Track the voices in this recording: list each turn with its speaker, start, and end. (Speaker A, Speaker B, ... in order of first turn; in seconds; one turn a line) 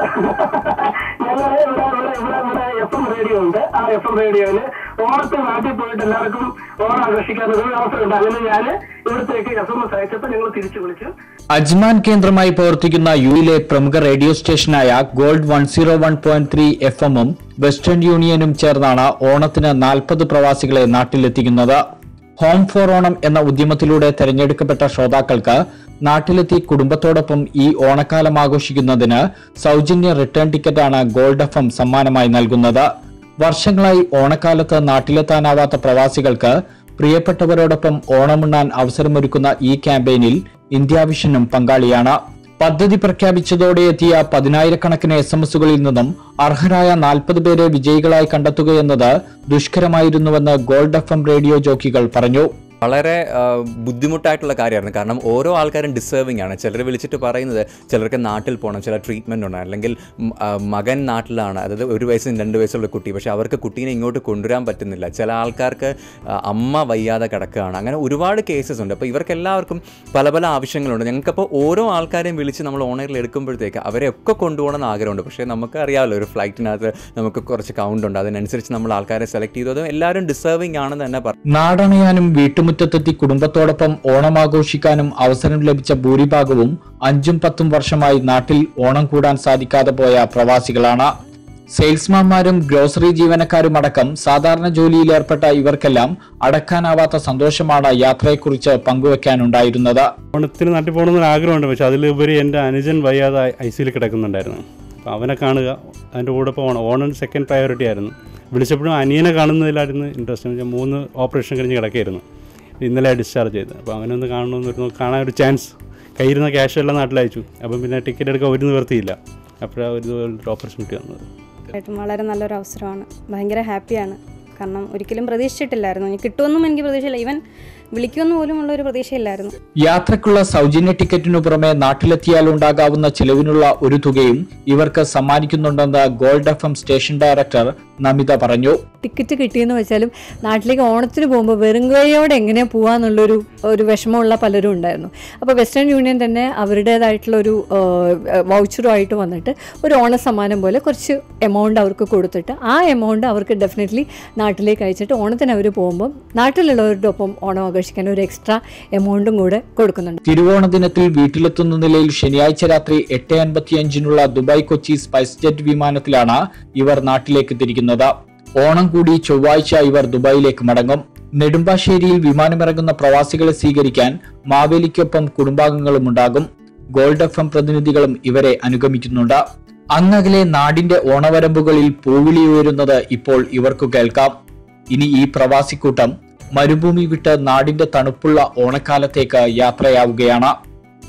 Speaker A: 0.1-11.1
Speaker B: 11.5-21.8
Speaker B: 22.4-32.9
Speaker B: 33.4-52.5
Speaker C: 52.8-65.9
Speaker C: 66.5-81.3
Speaker B: 81.5-91.1
Speaker B: 91.7-100.1
Speaker D: 100.3-112.2
Speaker D: 112.8-121.2
Speaker E: 121.8-127.4
Speaker E: 127.9-129.5
Speaker B: 129.8-138.8
Speaker F: 139.0-160.2
Speaker B: 160.2-179.4
Speaker B: 179.9-184.3
Speaker B: 184.9-190.5